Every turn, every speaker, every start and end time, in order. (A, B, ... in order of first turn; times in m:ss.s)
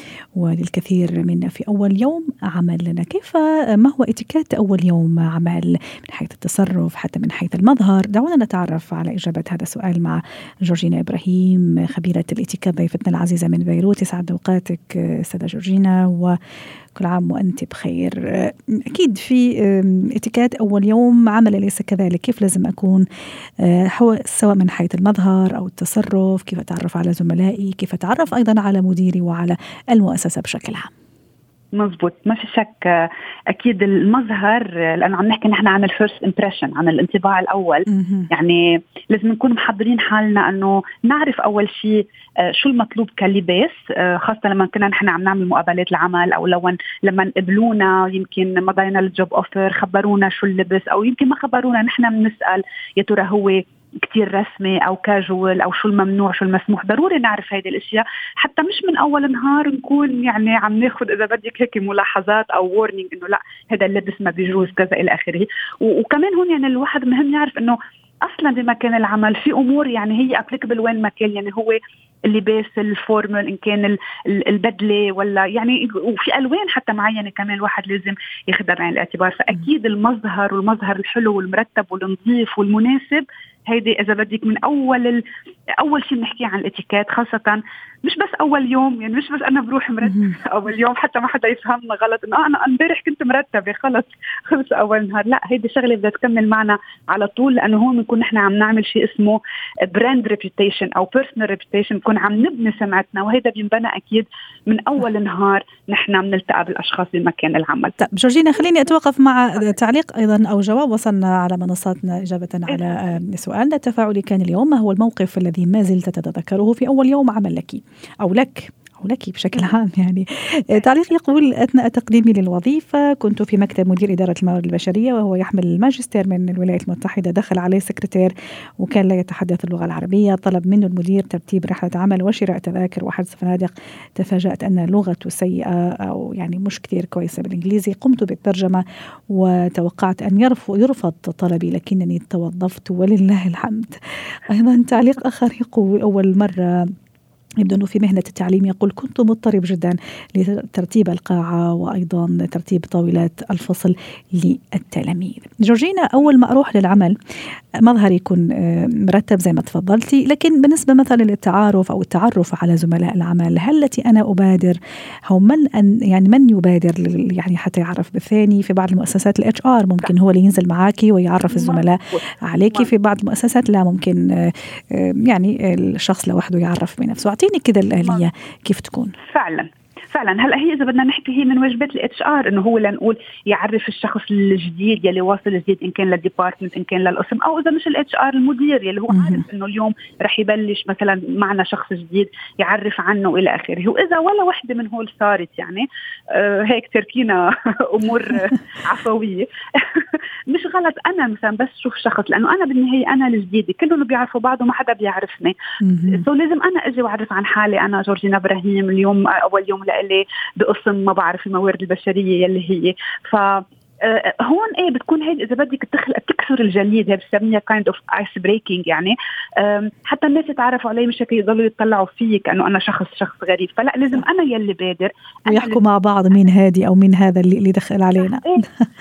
0:00.4-0:16.4 A
0:16.9-0:23.0 A
0:23.6-0:30.9 A
0:31.7-0:38.6 B
0:37.9-0:38.3 A
0:39.1-1:25.2 B
1:25.8-1:48.0 B
1:48.0-2:26.9 A
2:27.6-2:37.2 A
2:37.8-2:59.1 A
2:51.5-2:52.9 B
2:59.2-3:25.6 B
3:09.1-3:09.4 A
3:25.8-3:26.2 A
3:26.1-3:45.8 B
3:45.5-3:48.6 A